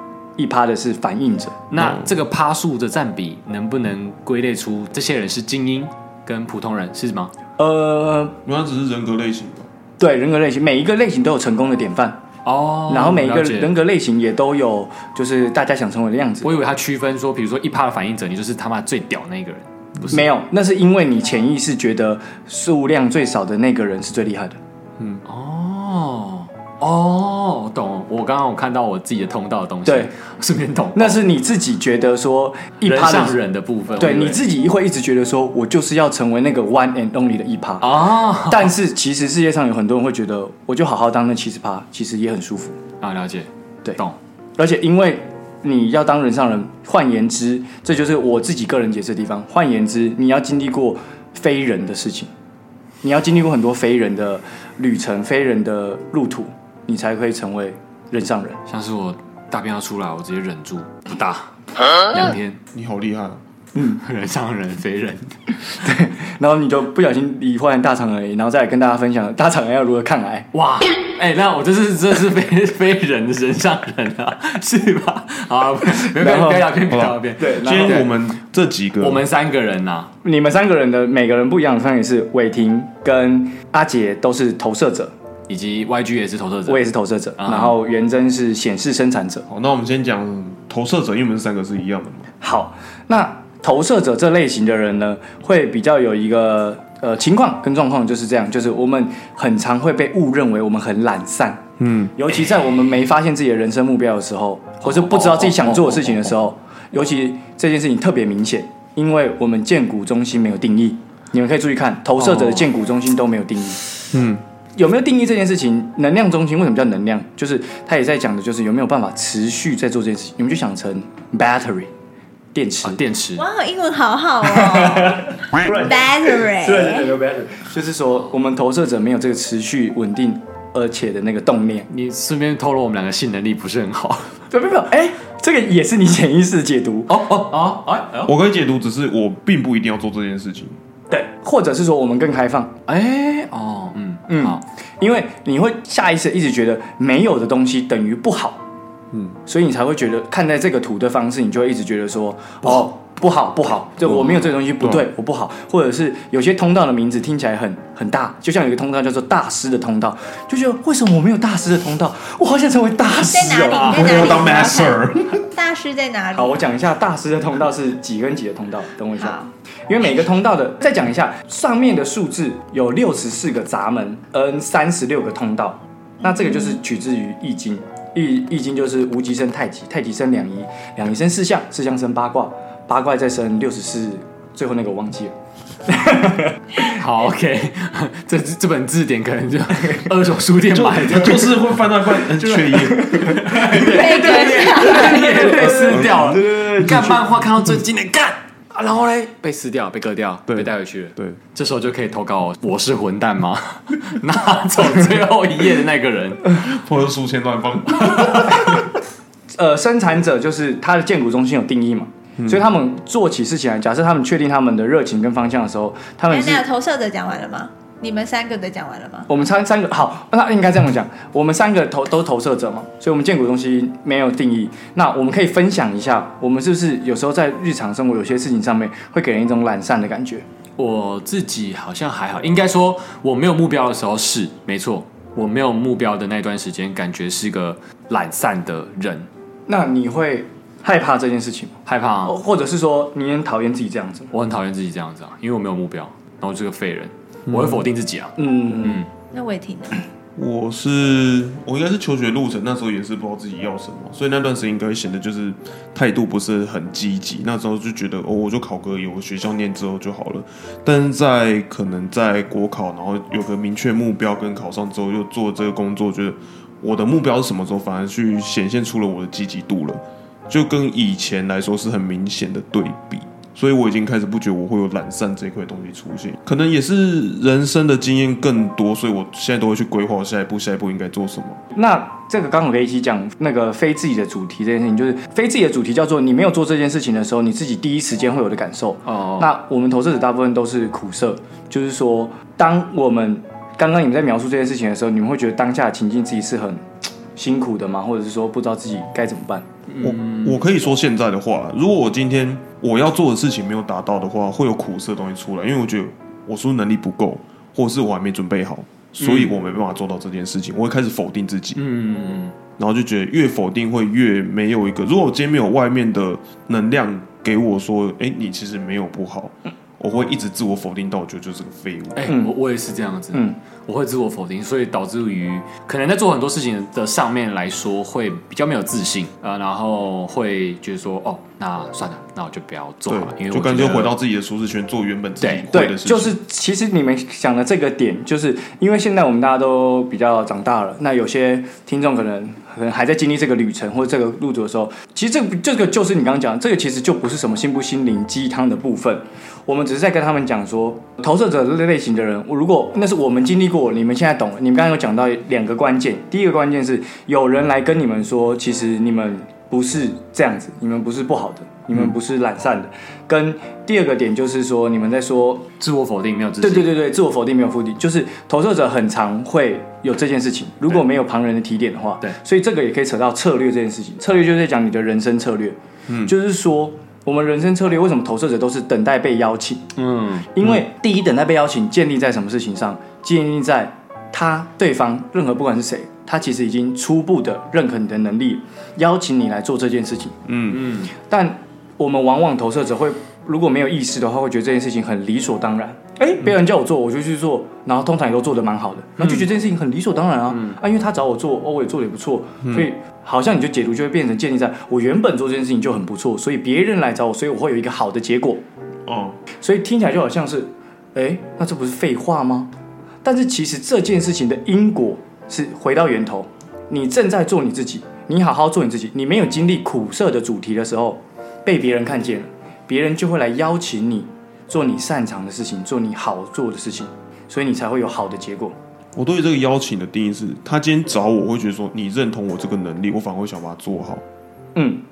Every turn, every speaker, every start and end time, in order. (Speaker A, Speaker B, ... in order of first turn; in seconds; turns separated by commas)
Speaker A: 0.4-1.6, Speaker B: 1.7-7.3, Speaker C: 1.8-2.1, Speaker A: 7.6-8.3, Speaker C: 8.4-9.7, Speaker A: 10.0-12.2, Speaker B: 12.4-13.7, Speaker A: 12.9-16.5, Speaker B: 16.4-20.2, Speaker A: 20.1-24.6, Speaker C: 25.0-25.2, Speaker B: 25.2-31.2, Speaker A: 29.9-30.1, Speaker A: 30.9-33.4, Speaker B: 32.8-34.4, Speaker A: 34.0-37.9, Speaker B: 37.8-38.7, Speaker A: 38.5-42.8, Speaker B: 43.0-44.2, Speaker A: 44.6-52.3, Speaker A: 53.0-58.6, Speaker B: 58.7-62.6, Speaker C: 62.7-63.4, Speaker A: 63.7-64.0, Speaker B: 64.0-65.4, Speaker A: 65.8-70.5, Speaker B: 70.5-78.1, Speaker A: 76.0-76.8, Speaker C: 76.9-79.2, Speaker A: 77.4-78.0, Speaker B: 79.0-80.1, Speaker A: 80.2-85.1, Speaker B: 85.5-86.8, Speaker A: 86.7-89.5, Speaker B: 87.4-87.8, Speaker C: 89.5-92.3, Speaker A: 92.4-101.6, Speaker C: 101.8-102.2, Speaker A: 102.2-113.9, Speaker B: 104.8-106.3, Speaker B: 112.2-112.7, Speaker C: 114.1-114.4, Speaker A: 114.7-121.9, Speaker A: 122.5-123.0, Speaker B: 122.8-123.4, Speaker D: 123.3-127.1, Speaker A: 124.4-131.9, Speaker B: 131.9-134.4, Speaker A: 134.5-137.2, Speaker B: 137.1-138.3, Speaker C: 138.2-140.8, Speaker A: 141.1-142.8, Speaker B: 142.9-144.6, Speaker A: 144.3-148.6, Speaker C: 149.1-149.4, Speaker A: 149.4-164.6, Speaker C: 154.1-155.1, Speaker B: 154.1-154.5, Speaker D: 163.2-166.6, Speaker C: 163.8-165.5, Speaker A: 166.3-169.3, Speaker D: 169.2-169.5, Speaker A: 169.9-185.3, Speaker D: 176.3-176.8, Speaker A: 185.9-186.9, Speaker B: 186.8-191.5, Speaker C: 190.7-193.4, Speaker B: 192.3-206.6, Speaker A: 192.9-197.2, Speaker D: 193.7-195.7, Speaker C: 195.9-196.2, Speaker C: 200.5-201.4, Speaker C: 206.5-208.8, Speaker B: 208.0-208.6, Speaker A: 209.5-216.6, Speaker D: 216.3-219.3, Speaker A: 219.3-230.4, Speaker B: 230.8-239.3, Speaker A: 239.7-244.3, Speaker B: 241.8-242.3, Speaker B: 244.3-249.1, Speaker A: 248.4-249.0, Speaker D: 249.3-250.0, Speaker C: 250.3-281.6, Speaker A: 281.7-296.8, Speaker B: 289.0-289.5, Speaker A: 297.3-299.6, Speaker B: 299.9-300.6, Speaker C: 300.0-311.8, Speaker B: 309.2-309.6, Speaker B: 311.8-312.5, Speaker C: 312.8-322.3, Speaker B: 322.1-334.1, Speaker C: 333.1-336.4, Speaker B: 335.4-335.7, Speaker A: 335.7-365.7, Speaker B: 365.8-366.9, Speaker A: 366.6-379.8, Speaker C: 376.1-376.3, Speaker B: 379.9-380.5, Speaker A: 380.5-390.4, Speaker C: 390.4-390.9, Speaker B: 390.7-391.1, Speaker A: 391.2-408.6, Speaker B: 399.2-399.5, Speaker B: 400.5-400.8, Speaker C: 402.6-402.9, Speaker C: 409.1-409.4, Speaker A: 409.6-412.7, Speaker A: 413.2-428.8, Speaker C: 429.1-434.2, Speaker A: 434.7-435.0